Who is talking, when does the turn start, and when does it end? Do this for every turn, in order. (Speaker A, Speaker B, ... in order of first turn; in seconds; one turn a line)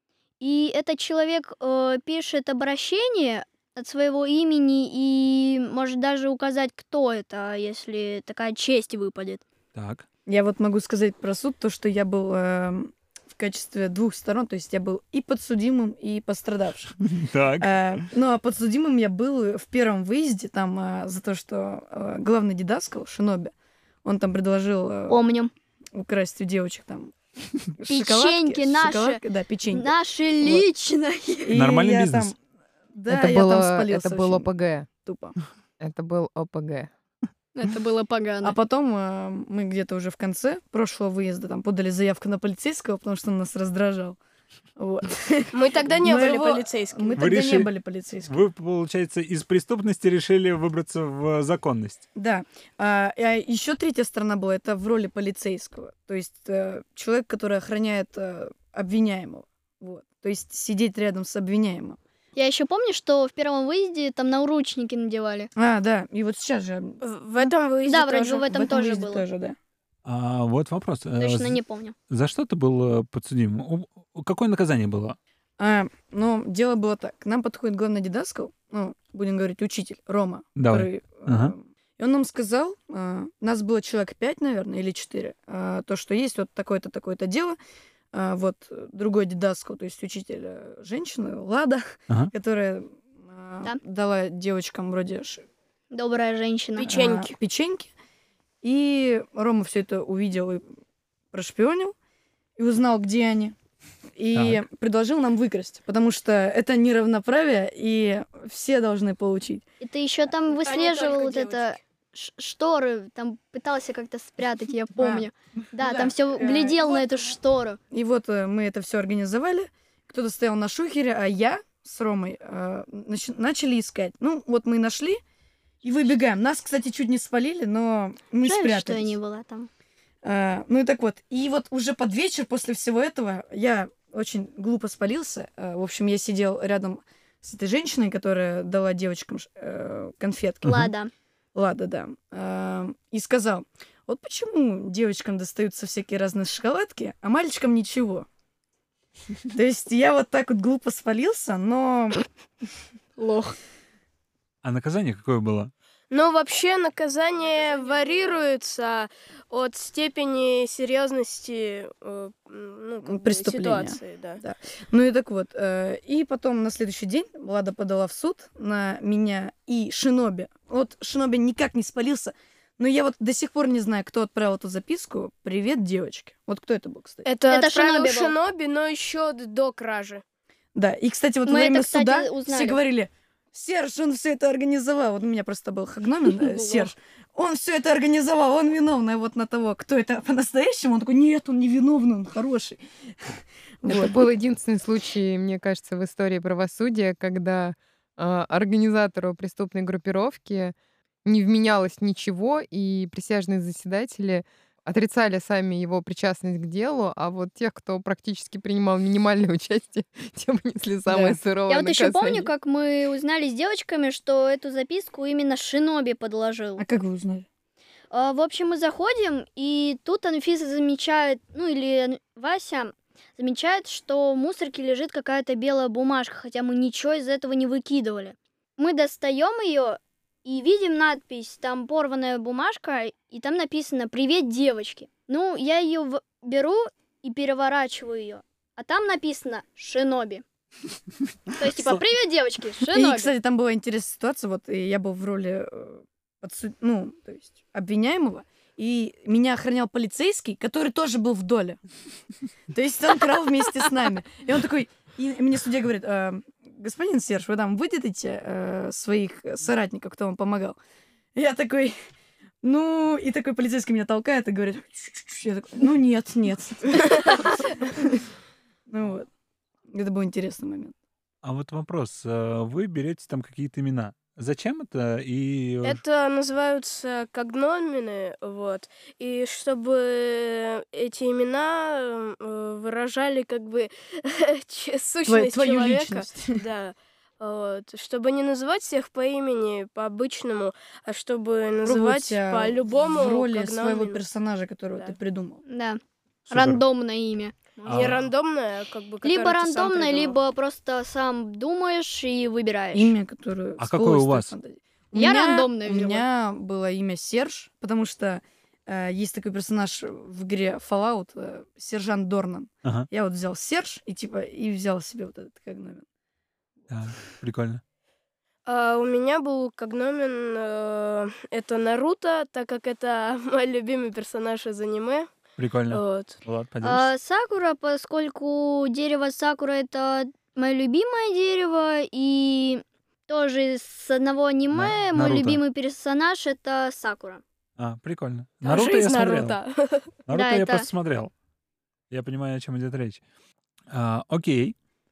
Speaker A: 0.4-9.4
Speaker B: 9.7-10.0
Speaker C: 10.3-16.9
Speaker B: 17.0-18.0
Speaker C: 17.6-25.2
Speaker A: 25.1-25.5
Speaker C: 25.9-27.1
Speaker C: 27.7-30.6
Speaker A: 27.9-31.6
Speaker C: 31.5-32.3
Speaker B: 31.5-32.3
Speaker C: 32.9-34.5
Speaker D: 33.1-34.9
Speaker C: 35.0-35.4
Speaker D: 35.8-36.9
Speaker A: 37.5-38.5
Speaker C: 38.4-44.2
Speaker C: 44.8-48.4
Speaker E: 45.5-47.2
Speaker B: 47.1-47.7
Speaker B: 48.2-52.0
Speaker C: 52.1-62.0
Speaker A: 62.4-65.5
Speaker C: 65.5-67.0
Speaker E: 67.0-68.4
Speaker A: 67.9-69.2
Speaker C: 68.4-69.6
Speaker B: 70.0-75.2
Speaker A: 71.2-71.9
Speaker C: 75.6-87.6
Speaker B: 80.5-81.5
Speaker C: 88.1-95.4
Speaker A: 95.9-96.9
Speaker E: 96.8-97.3
Speaker C: 96.9-97.9
Speaker C: 98.6-100.7
Speaker C: 101.3-101.9
Speaker C: 102.6-103.5
Speaker C: 104.2-109.6
Speaker B: 104.3-104.6
Speaker A: 109.8-117.8
Speaker E: 110.5-111.7
Speaker C: 115.0-117.3
Speaker C: 117.9-125.2
Speaker C: 125.8-129.2
Speaker A: 128.4-129.7
Speaker C: 130.2-140.8
Speaker A: 140.6-141.1
Speaker C: 141.5-148.3
Speaker C: 149.5-152.2
Speaker A: 153.2-153.6
Speaker B: 154.6-155.7
Speaker E: 156.1-164.4
Speaker C: 163.0-177.3
Speaker E: 177.2-180.2
Speaker A: 177.5-178.3
Speaker C: 180.7-194.2
Speaker A: 181.4-182.8
Speaker A: 186.4-186.9
Speaker D: 193.8-212.5
Speaker C: 211.1-211.4
Speaker A: 211.7-216.8
Speaker C: 216.8-217.4
Speaker A: 218.1-240.4
Speaker A: 241.6-243.3
Speaker C: 242.9-251.8
Speaker C: 252.7-260.8
Speaker C: 261.3-262.0
Speaker C: 262.6-268.2
Speaker C: 268.9-269.3
Speaker C: 269.9-270.9
Speaker B: 271.4-276.0
Speaker E: 275.8-294.2
Speaker C: 285.3-286.6
Speaker C: 291.8-295.6
Speaker A: 295.7-298.2
Speaker B: 296.5-296.8
Speaker B: 297.8-298.3
Speaker E: 297.9-300.4
Speaker A: 299.2-303.1
Speaker C: 302.9-316.0
Speaker B: 303.8-304.5
Speaker A: 305.1-306.2
Speaker B: 316.9-317.8
Speaker E: 318.6-325.3
Speaker B: 325.6-327.1
Speaker E: 325.9-326.4
Speaker A: 326.8-337.4
Speaker B: 334.7-335.6
Speaker B: 337.8-339.6
Speaker E: 338.6-340.1
Speaker B: 340.3-341.3
Speaker A: 340.3-340.9
Speaker B: 342.1-343.2
Speaker B: 343.9-344.7